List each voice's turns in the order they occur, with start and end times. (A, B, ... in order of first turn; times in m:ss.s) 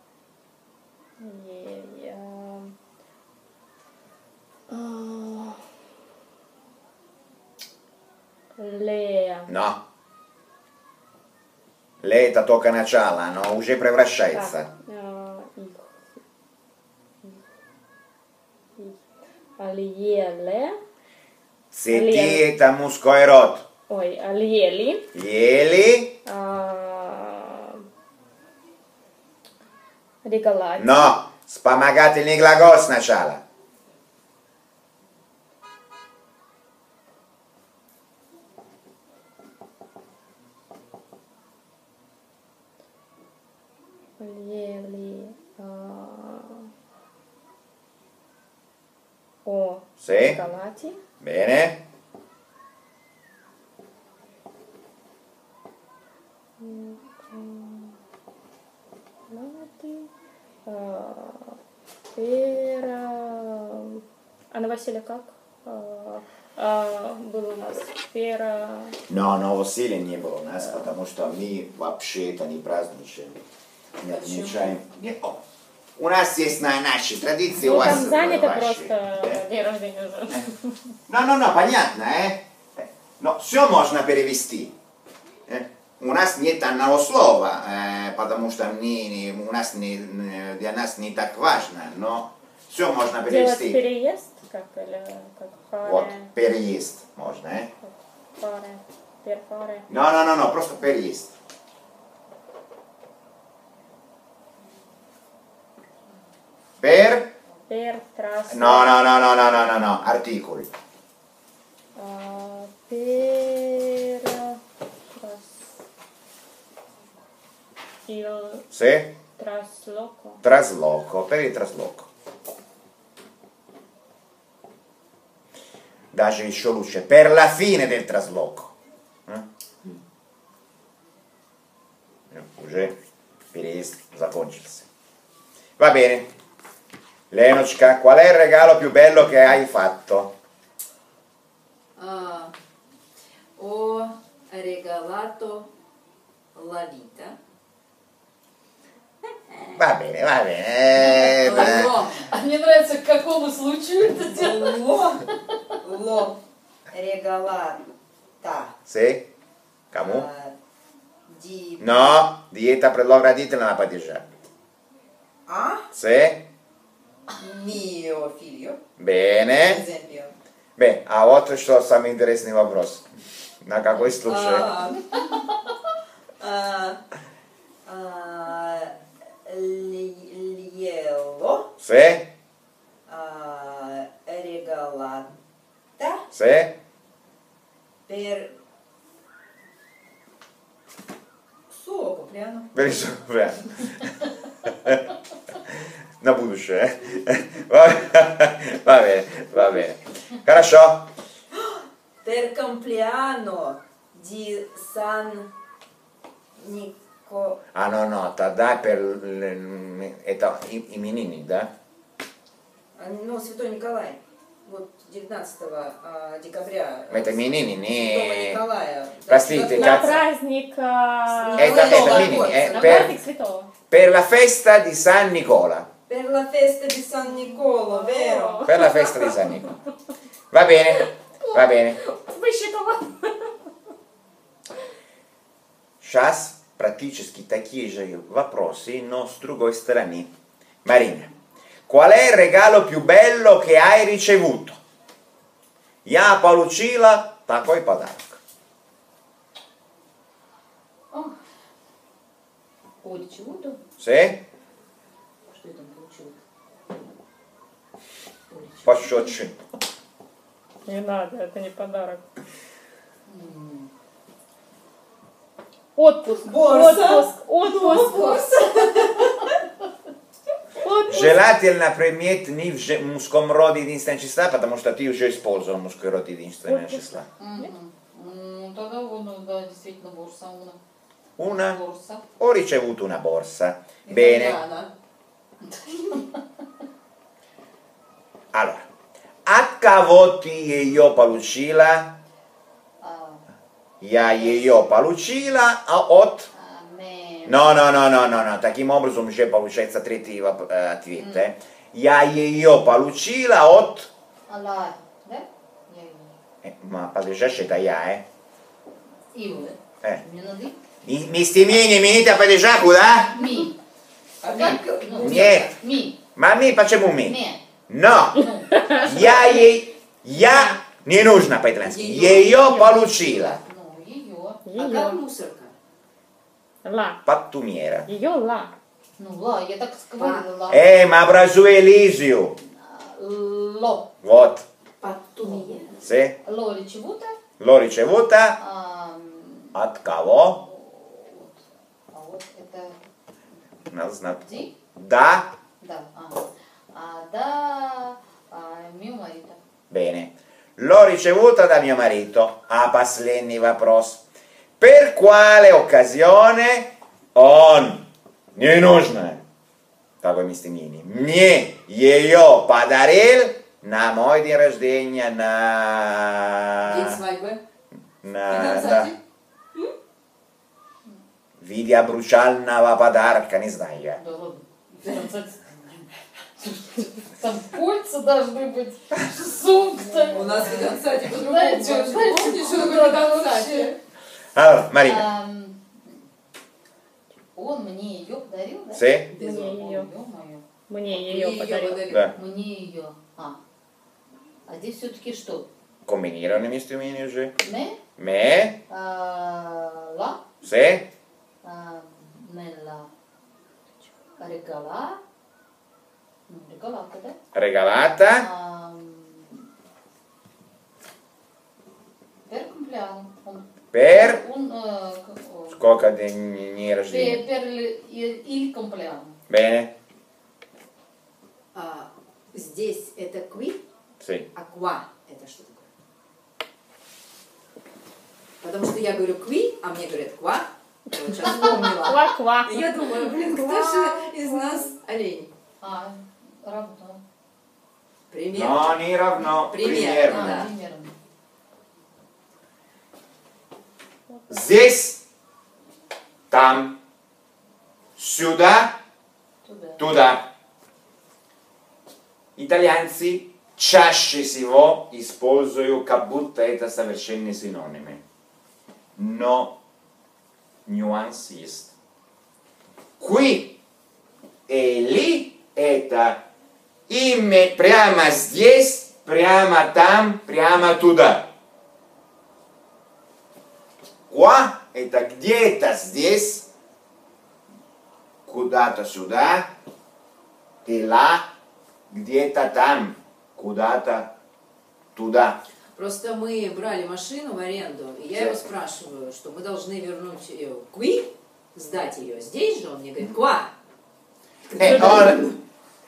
0:01.2-0:02.7 A
0:04.7-0:05.6 A
0:08.6-0:09.5 A
0:09.5-0:09.8 B
0:12.0-0:14.7 B
0:14.3-0:15.9 A
0:19.6-0:20.8 A
0:21.7-0:23.6 B
0:21.9-0:22.4 A
0:23.9-0:25.1 A
0:25.1-0:26.2 B
0:26.2-0:27.8 A
0:30.2-0:31.1 A
0:30.8-0:33.4 B
0:44.2-0:46.7 A
0:49.4-0:51.0 A
0:50.0-0:50.4 B
0:51.2-0:51.8 B
0:56.6-0:58.0 A
0:59.3-1:00.1 A
1:00.6-1:01.6 A
1:02.1-1:09.0 A
1:09.1-1:13.4 B
1:14.0-1:15.4 B
1:14.1-1:14.7 C
1:16.0-1:19.4 B
1:17.6-1:20.7 A
1:21.1-1:24.7 B
1:25.5-1:33.8 B
1:33.2-1:36.3 A
1:35.8-1:37.7 B
1:37.8-1:39.9 A
1:39.9-1:41.3 B
1:46.8-1:47.3 B
1:47.7-1:48.9 A
1:48.5-1:50.7 B
1:51.9-1:54.6 A
1:55.1-1:55.6 A
1:58.0-1:58.6 A
1:58.7-1:59.1 B
1:59.4-2:00.4 A
2:00.4-2:02.1 B
2:06.1-2:08.7 B
2:12.3-2:13.0 B
2:13.5-2:14.9 B
2:15.8-2:16.3 B
2:17.3-2:20.3 B
2:22.0-2:22.5 C
2:23.6-2:25.7 C
2:26.5-2:27.4 C
2:29.5-2:29.8 C
2:29.8-2:31.9 B
2:30.9-2:32.3 C
2:32.2-2:34.8 D
2:34.2-2:35.3 C
2:35.8-2:37.8 C
2:38.4-2:38.8 C
2:38.9-2:39.3 B
2:39.9-2:40.3 B
2:39.9-2:40.5 C
2:41.3-2:42.3 C
2:41.8-2:44.3 B
2:45.5-2:45.9 C
2:45.9-2:46.4 B
2:47.3-2:48.8 C
2:49.0-2:49.8 B
2:49.6-2:50.3 C
2:50.8-2:53.1 B
2:53.6-2:54.7 B
2:54.2-2:55.5 C
2:56.4-2:57.0 C
2:57.8-3:01.7 C
3:01.8-3:02.3 B
3:03.1-3:05.3 C
3:06.0-3:06.2 C
3:06.3-3:06.7 B
3:08.1-3:08.5 C
3:11.7-3:12.7 C
3:12.7-3:14.1 B
3:14.6-3:15.0 B
3:15.6-3:21.1 B
3:21.5-3:25.5 C
3:26.6-3:27.6 C
3:27.7-3:31.7 B
3:32.9-3:40.3 C
3:37.1-3:38.6 B
3:39.3-3:40.1 B
3:39.7-3:43.7 A
3:41.3-3:43.2 C
3:41.5-3:43.2 B
3:43.9-3:45.9 B
3:46.1-3:48.7 C
3:47.2-3:49.5 A
3:48.6-3:49.8 B
3:50.5-3:52.0 B
3:51.4-3:53.5 A
3:56.0-4:00.3 B
4:00.8-4:01.3 B
4:01.9-4:04.8 B
4:06.0-4:08.4 B
4:13.0-4:13.8 D
4:14.0-4:14.4 B
4:15.5-4:16.3 C
4:18.5-4:18.9 D
4:18.8-4:19.5 B
4:20.8-4:22.2 A
4:23.3-4:23.9 D
4:25.9-4:28.5 A
4:26.4-4:29.5 C
4:28.2-4:28.5 D
4:30.7-4:31.6 A
4:31.0-4:37.3 B
4:36.7-4:37.7 A
4:37.4-4:40.8 D
4:41.4-4:41.8 B
4:41.4-4:42.2 D
4:42.4-4:44.6 B
4:44.0-4:44.9 C
4:45.6-4:46.4 D
4:48.5-4:48.9 B
4:49.4-4:52.2 B
4:53.0-4:53.4 D
4:54.0-4:56.5 B
4:54.2-4:54.8 D
4:56.5-4:57.6 D
4:57.4-5:04.1 B
5:01.2-5:01.4 D
5:04.5-5:06.4 D
5:06.6-5:08.2 B
5:09.3-5:10.8 D
5:11.0-5:13.5 B
5:13.3-5:13.8 D
5:14.4-5:15.8 C
5:14.5-5:16.2 D
5:15.2-5:15.7 B
5:16.4-5:23.6 B
5:17.2-5:17.6 D
5:18.3-5:19.2 D
5:18.7-5:19.3 A
5:21.8-5:22.7 C
5:23.2-5:24.6 D
5:24.6-5:25.2 A
5:24.8-5:25.7 C
5:26.8-5:27.2 A
5:27.2-5:28.1 B
5:28.0-5:28.7 A
5:29.2-5:30.9 D
5:30.2-5:30.4 C
5:30.7-5:32.6 B
5:32.6-5:34.1 D
5:34.2-5:34.6 B
5:35.0-5:36.0 C
5:35.4-5:35.9 D
5:36.0-5:36.4 B
5:36.4-5:37.4 D
5:37.6-5:38.6 B
5:38.6-5:39.8 D
5:39.7-5:40.6 B
5:40.5-5:43.1 D
5:43.9-5:45.6 B
5:44.4-5:44.7 D
5:45.8-5:49.6 D
5:49.9-5:54.2 B
5:54.8-5:59.4 B
6:00.2-6:07.2 B
6:06.8-6:07.6 C
6:08.2-6:09.1 B
6:08.5-6:09.2 C
6:11.6-6:14.2 B
6:14.2-6:24.0 D
6:20.3-6:24.0 C
6:24.5-6:25.3 B
6:25.0-6:25.9 D
6:27.5-6:30.6 D
6:28.9-6:29.3 B
6:29.3-6:29.8 C
6:29.4-6:30.1 A
6:30.9-6:32.0 A
6:31.1-6:32.4 C
6:32.1-6:32.3 B
6:32.3-6:33.6 D
6:34.7-6:35.7 D
6:36.0-6:37.6 B
6:37.6-6:38.0 D
6:38.2-6:38.8 B
6:38.9-6:40.4 D
6:40.6-6:41.1 B
6:41.6-6:43.1 D
6:44.4-6:45.2 D
6:46.5-6:47.4 D
6:47.5-6:48.5 B
6:48.3-6:49.6 D
6:52.5-6:55.9 D
6:53.9-6:54.4 B
6:55.7-6:57.4 B
6:57.1-6:59.4 D
6:59.5-6:59.9 B
7:01.7-7:03.8 C
7:04.2-7:04.5 B
7:04.5-7:05.9 C
7:08.6-7:15.5 C
7:11.3-7:14.9 A
7:15.8-7:17.2 D
7:18.3-7:20.7 C
7:18.5-7:20.7 B
7:20.2-7:21.1 D
7:24.5-7:25.2 B
7:26.5-7:27.0 B
7:28.2-7:29.0 B
7:29.6-7:30.0 D
7:30.0-7:30.5 B
7:32.6-7:38.2 B
7:39.2-7:39.8 B
7:40.8-7:41.9 B
7:43.2-7:43.8 B
7:44.7-7:46.5 B
7:47.1-7:51.5 B
7:54.3-7:56.7 B
7:58.4-7:59.7 B
8:00.8-8:01.5 B
8:02.1-8:04.3 B
8:05.1-8:05.6 B
8:06.0-8:13.7 C
8:14.7-8:15.6 C
8:14.8-8:15.5 B
8:14.8-8:15.4 A